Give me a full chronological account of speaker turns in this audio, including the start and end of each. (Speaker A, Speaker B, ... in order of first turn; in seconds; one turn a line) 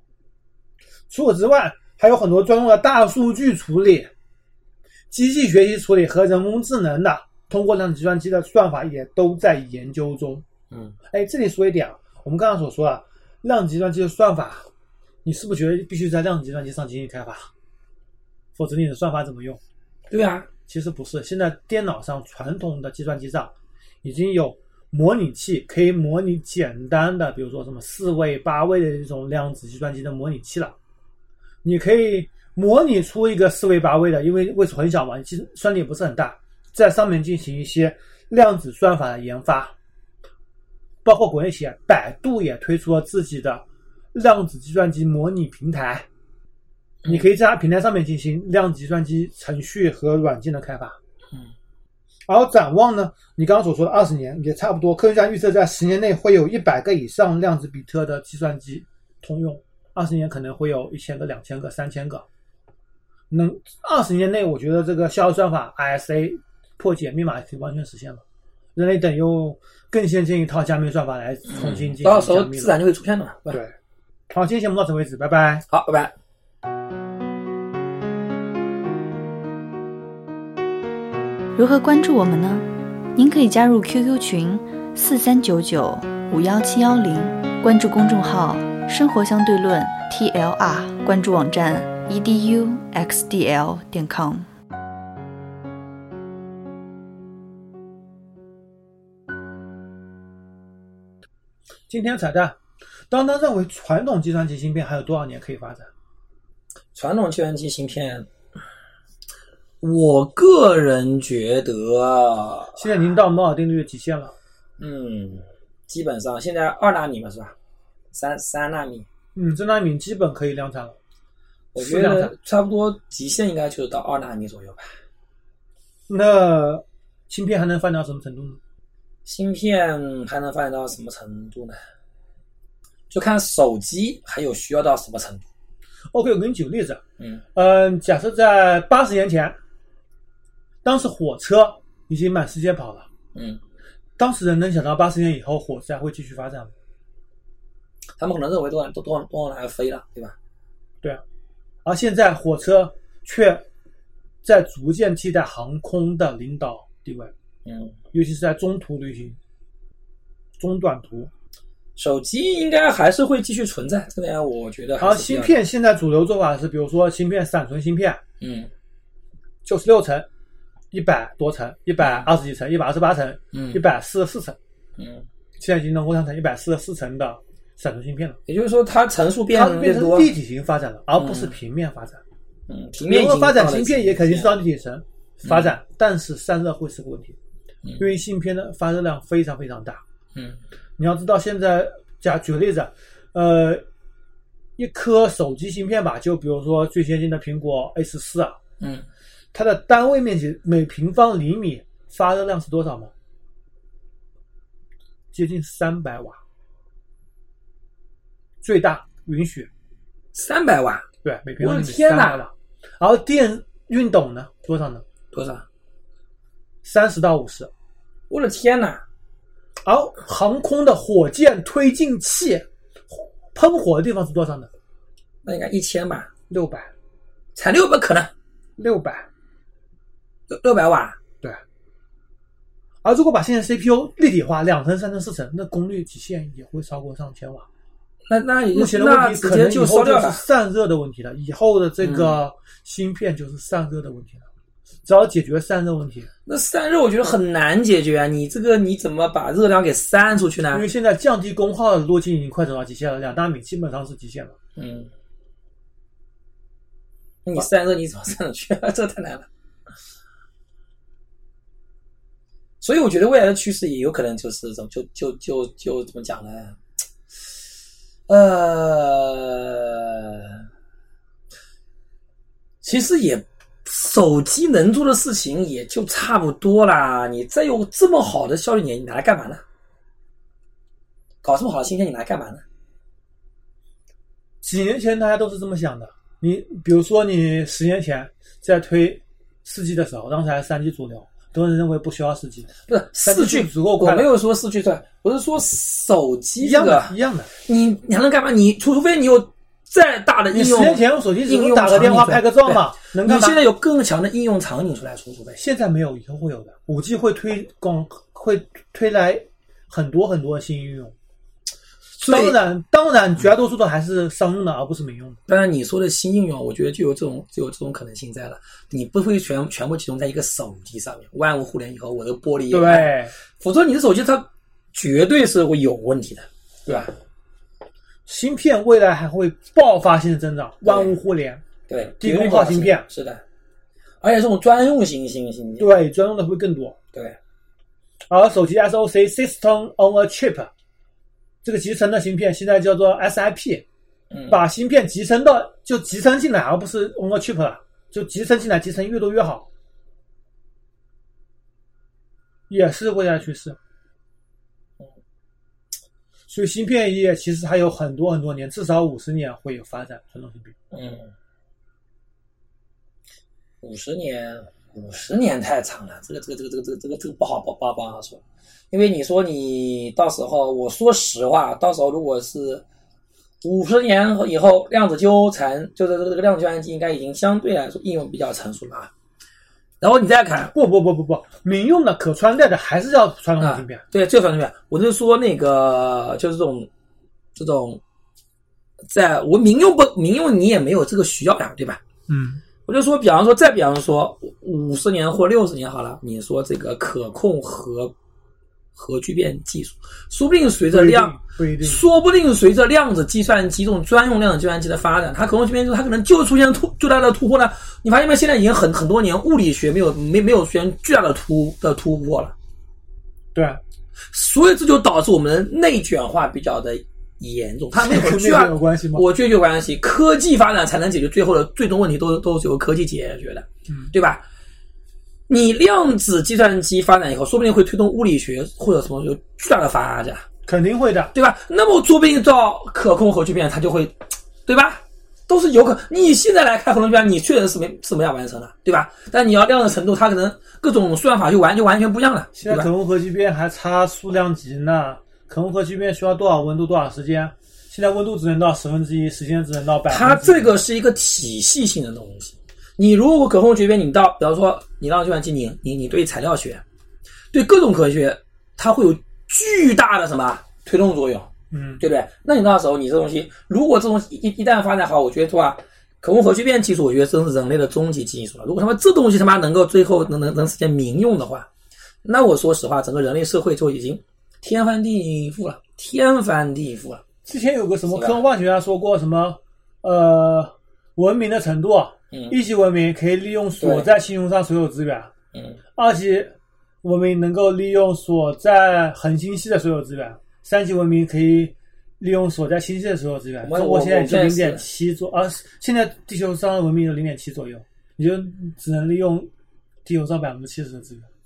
Speaker A: 1.1-4.1
Speaker A: 5.1-10.4
Speaker B: 10.7-10.9
Speaker A: 11.1-14.7
Speaker A: 15.2-17.5
Speaker A: 18.6-19.6
Speaker B: 20.1-20.5
Speaker A: 20.7-30.7
Speaker A: 31.6-39.7
Speaker A: 41.0-46.1
Speaker A: 47.0-51.0
Speaker A: 52.3-62.2
Speaker A: 63.3-68.2
Speaker A: 68.8-72.7
Speaker B: 71.5-73.6
Speaker A: 73.5-73.7
Speaker A: 74.3-75.6
Speaker B: 75.7-76.1
Speaker C: 81.5-94.5
Speaker A: 101.9-102.6
Speaker A: 103.1-105.9
Speaker B: 106.9-108.3
Speaker B: 109.8-113.1
Speaker A: 112.8-114.3
Speaker B: 114.8-117.5
Speaker B: 118.1-119.1
Speaker A: 119.3-121.0
Speaker B: 121.7-124.9
Speaker A: 121.8-122.3
Speaker A: 126.1-128.6
Speaker B: 129.2-131.8
Speaker B: 133.1-135.4
Speaker A: 136.1-137.0
Speaker A: 137.5-139.6
Speaker A: 140.8-143.1
Speaker B: 143.3-143.6
Speaker A: 144.2-146.7
Speaker B: 148.2-150.3
Speaker A: 151.8-153.6
Speaker A: 154.4-157.3
Speaker B: 157.6-158.0
Speaker A: 158.1-159.4
Speaker A: 160.6-161.3
Speaker B: 161.9-165.6
Speaker A: 165.0-168.2
Speaker B: 168.4-168.7
Speaker A: 169.6-170.3
Speaker A: 170.9-174.6
Speaker B: 172.0-172.3
Speaker B: 173.5-173.8
Speaker B: 175.0-175.2
Speaker A: 175.6-178.4
Speaker B: 178.5-180.3
Speaker A: 179.5-182.2
Speaker B: 181.2-181.6
Speaker B: 182.7-184.5
Speaker A: 183.0-187.3
Speaker B: 185.4-185.7
Speaker A: 188.0-190.0
Speaker A: 191.0-193.8
Speaker A: 194.8-198.6
Speaker B: 198.8-199.1
Speaker A: 199.5-203.1
Speaker A: 205.3-206.4
Speaker A: 208.6-209.7
Speaker B: 210.3-211.1
Speaker A: 211.2-215.0
Speaker B: 211.6-212.4
Speaker B: 215.3-215.7
Speaker A: 216.8-217.7
Speaker B: 218.3-219.0
Speaker A: 219.8-224.7
Speaker B: 225.4-226.3
Speaker A: 226.5-226.9
Speaker B: 227.6-228.3
Speaker A: 228.8-229.3
Speaker B: 230.5-231.2
Speaker A: 233.0-237.7
Speaker B: 238.3-240.4
Speaker A: 238.7-244.4
Speaker B: 242.0-242.4
Speaker A: 245.0-246.3
Speaker B: 246.4-250.8
Speaker A: 250.7-254.5
Speaker B: 254.8-255.1
Speaker B: 257.4-259.5
Speaker B: 262.8-266.8
Speaker B: 268.3-270.6
Speaker B: 272.8-279.6
Speaker B: 281.4-282.6
Speaker A: 284.6-294.3
Speaker B: 292.9-297.1
Speaker A: 296.6-297.5
Speaker B: 297.6-305.6
Speaker A: 300.5-303.6
Speaker A: 305.6-311.1
Speaker B: 312.2-312.6
Speaker A: 312.2-315.4
Speaker B: 315.5-327.1
Speaker A: 322.7-323.3
Speaker A: 328.3-331.6
Speaker B: 330.8-331.1
Speaker B: 331.9-333.4
Speaker A: 332.2-333.0
Speaker B: 334.2-335.9
Speaker A: 335.8-337.0
Speaker A: 338.3-340.7
Speaker A: 341.6-343.8
Speaker B: 344.3-344.6
Speaker A: 344.5-349.7
Speaker A: 352.7-353.8
Speaker A: 356.5-360.7
Speaker B: 360.9-361.3
Speaker B: 363.8-372.8
Speaker B: 373.6-379.1
Speaker B: 380.0-380.7
Speaker A: 380.7-384.0
Speaker B: 383.6-386.9
Speaker B: 387.6-388.0
Speaker B: 389.1-392.0
Speaker A: 392.3-392.6
Speaker B: 392.9-398.1
Speaker B: 398.9-412.5
Speaker A: 400.9-402.0
Speaker A: 413.5-413.8
Speaker B: 414.3-424.4
Speaker A: 417.9-419.2
Speaker B: 425.5-430.4
Speaker A: 430.6-431.3
Speaker B: 431.3-434.1
Speaker B: 434.6-442.9
Speaker A: 442.6-450.7
Speaker B: 450.1-456.8
Speaker B: 457.5-471.7
Speaker A: 461.7-462.0
Speaker B: 472.2-477.2
Speaker A: 477.4-485.3
Speaker B: 478.1-478.4
Speaker B: 483.8-484.1
Speaker B: 485.5-485.8
Speaker A: 486.0-499.5
Speaker B: 493.6-494.8
Speaker A: 500.0-501.3